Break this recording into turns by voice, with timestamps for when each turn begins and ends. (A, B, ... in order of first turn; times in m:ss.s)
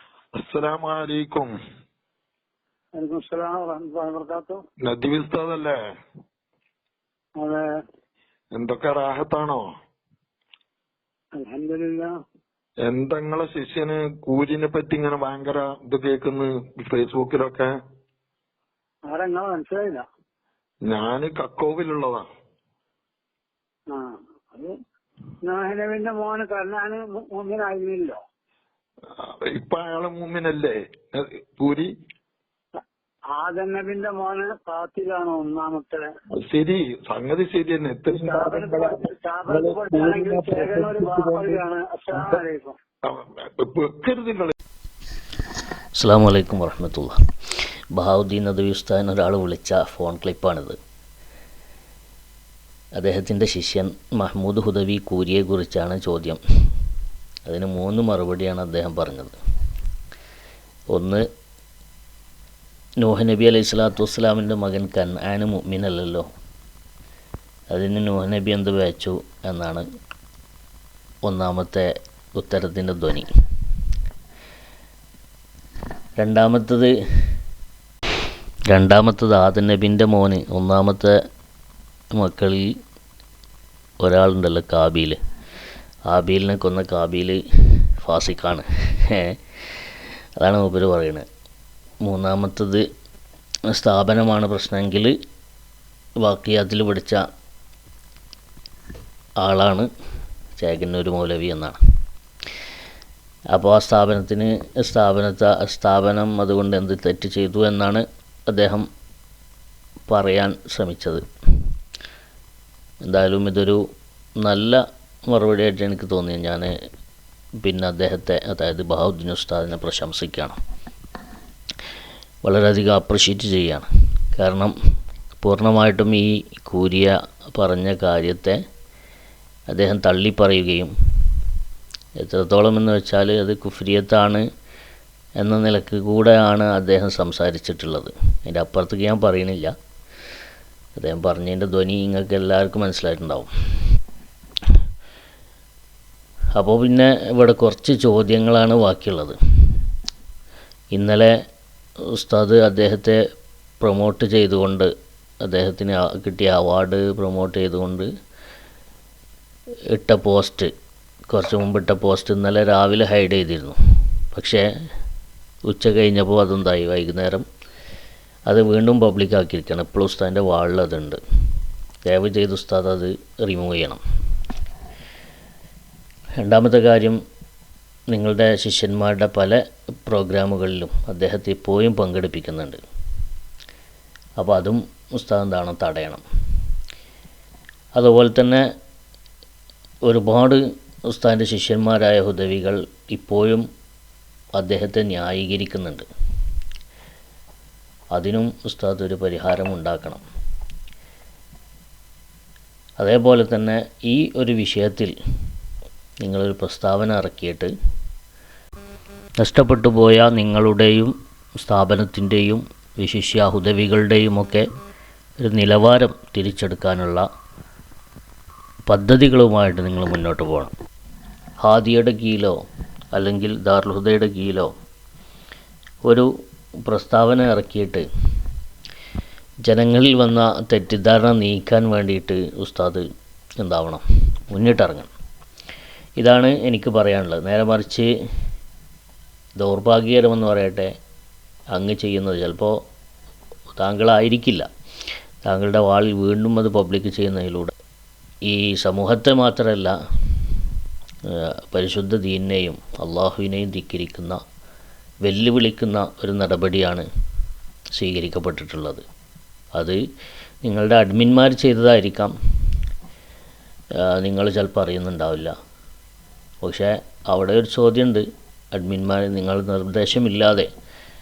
0:00.4-0:01.5 A
0:03.0-0:04.6 B
0:04.8-0:05.8 A
0:07.4-0:07.7 B
0:08.5-0:09.7 A
0:11.4-0:12.1 B
0:12.8-0:17.7 A
0:19.1-0:20.1 B
0:20.9-0:22.2 A
0:23.9-0:24.8 B
0:25.4-0:28.2 B
0:29.2-0:31.9 A
0:33.3-0:36.1 B
0:36.4-0:41.6 A
0:38.1-0:42.8 B
0:42.2-0:42.4 A
0:43.0-0:44.5 A
0:46.0-0:47.2 C
0:47.9-0:50.8 C
0:53.0-0:56.4 C
0:57.5-0:59.4 C
1:00.9-1:01.2 C
1:03.0-1:06.3 C
1:07.7-1:09.8 C
1:11.3-1:13.3 C
1:16.2-1:17.3 C
1:18.7-1:21.1 C
1:22.1-1:22.7 C
1:24.0-1:25.2 C
1:26.1-1:31.3 C
1:32.0-1:32.8 C
1:33.7-1:35.1 C
1:36.2-1:37.2 C
1:39.4-1:39.9 C
1:40.6-1:41.8 C
1:43.5-1:48.9 C
1:50.1-1:51.6 C
1:53.1-1:53.8 C
1:54.4-1:56.7 C
1:57.6-2:00.6 C
2:02.4-2:04.7 C
2:05.4-2:08.6 C
2:09.7-2:10.9 C
2:12.2-2:14.4 C
2:15.4-2:19.7 C
2:21.0-2:23.5 C
2:26.6-2:29.8 C
2:30.9-2:31.3 C
2:32.1-2:33.2 C
2:33.8-2:34.9 C
2:35.4-2:38.1 C
2:39.9-2:40.7 C
2:41.3-2:43.8 C
2:44.3-2:44.6 C
2:45.7-2:47.5 C
2:48.5-2:51.2 C
2:52.1-2:54.0 C
2:56.4-2:57.2 C
2:58.1-3:02.8 C
3:04.4-3:06.2 C
3:08.0-3:08.6 C
3:10.1-3:13.7 C
3:14.6-3:16.1 C
3:18.2-3:20.2 C
3:23.0-3:25.1 C
3:26.2-3:27.7 C
3:29.4-3:34.7 C
3:35.4-3:37.3 C
3:38.9-3:40.7 C
3:41.6-3:42.6 C
3:43.1-3:44.7 C
3:46.9-3:48.1 C
3:49.7-3:53.0 C
3:53.6-3:55.1 C
3:56.2-3:58.1 C
3:59.6-4:00.9 C
4:01.7-4:02.8 C
4:03.8-4:04.7 C
4:05.4-4:07.7 C
4:08.5-4:10.0 C
4:11.3-4:14.4 C
4:15.3-4:17.1 C
4:18.0-4:19.0 C
4:20.6-4:22.3 C
4:24.0-4:25.5 C
4:26.6-4:30.7 C